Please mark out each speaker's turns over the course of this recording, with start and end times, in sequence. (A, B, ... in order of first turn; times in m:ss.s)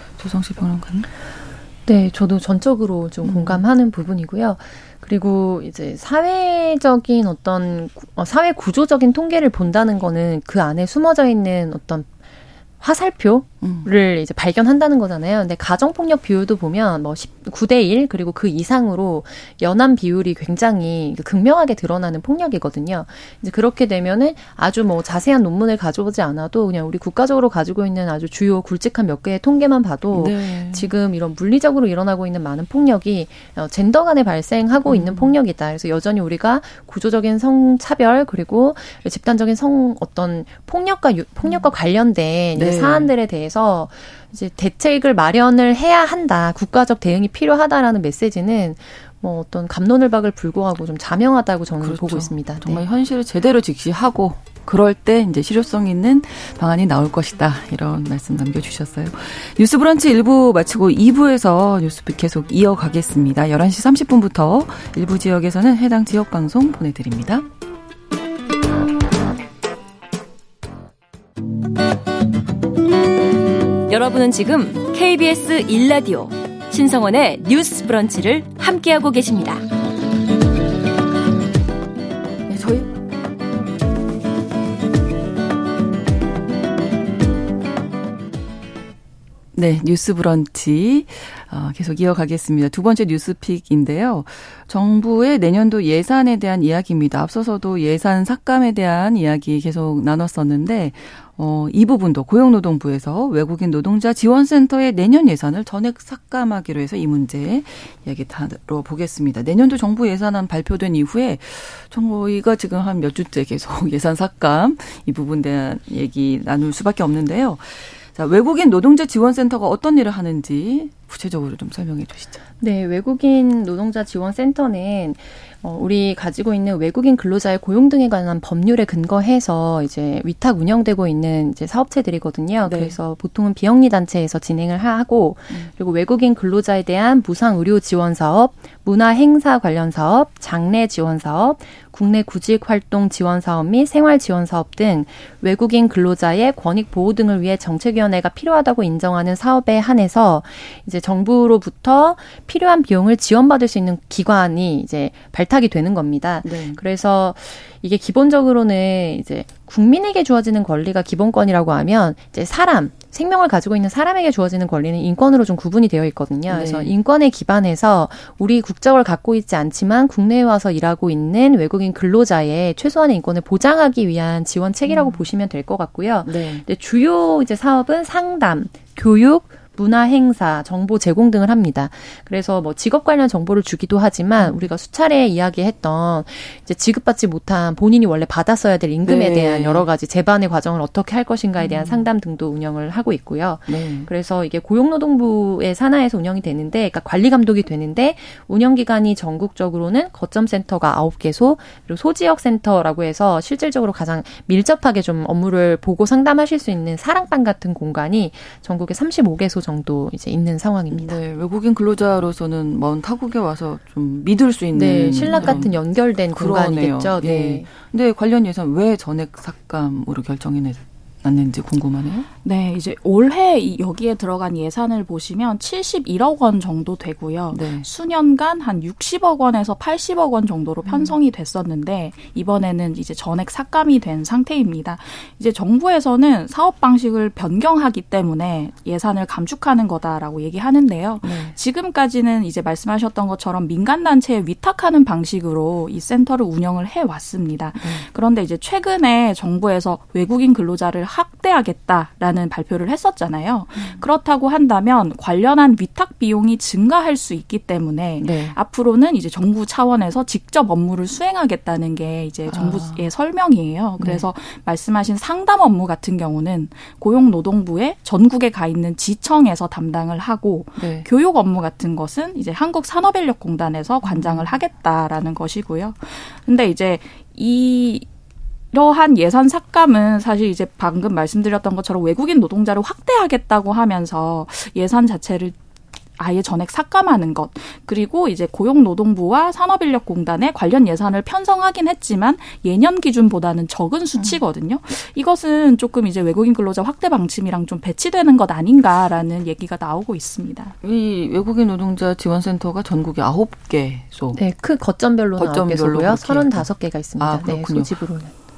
0:00.2-0:01.1 A
0:01.8-0:12.1 B
0:03.2-0:03.6 A
0:12.8-0:52.8 B
0:13.6-0:13.9 A
0:30.1-0:30.9 A
0:34.8-0:35.3 A
0:42.5-0:43.1 A
0:51.8-1:07.4 A
1:13.9-1:19.6 C
1:22.5-1:22.9 A
1:29.5-2:02.4 A
2:02.6-3:31.2 B
2:12.6-2:12.9 A
2:36.4-2:36.8 A
2:46.5-2:46.9 A
2:54.8-2:55.2 A
2:56.2-2:56.6 A
3:09.0-3:09.8 A
3:11.6-3:12.1 A
3:13.7-3:14.1 A
3:30.9-3:35.8 A
3:34.7-3:37.7 B
3:36.3-3:42.3 A
3:42.4-4:38.1 D
3:47.5-3:47.9 A
3:50.8-3:51.1 A
4:01.2-4:01.5 A
4:07.8-4:08.0 A
4:13.8-4:14.0 A
4:18.2-4:18.6 A
4:22.5-4:23.0 A
4:24.0-4:24.2 A
4:30.8-4:31.1 A
4:34.0-4:34.4 A
4:38.7-4:45.5 D
4:46.2-5:00.7 D
4:54.2-4:54.4 A
5:00.8-5:04.4 A
5:04.3-5:08.3 B
5:05.4-5:07.9 A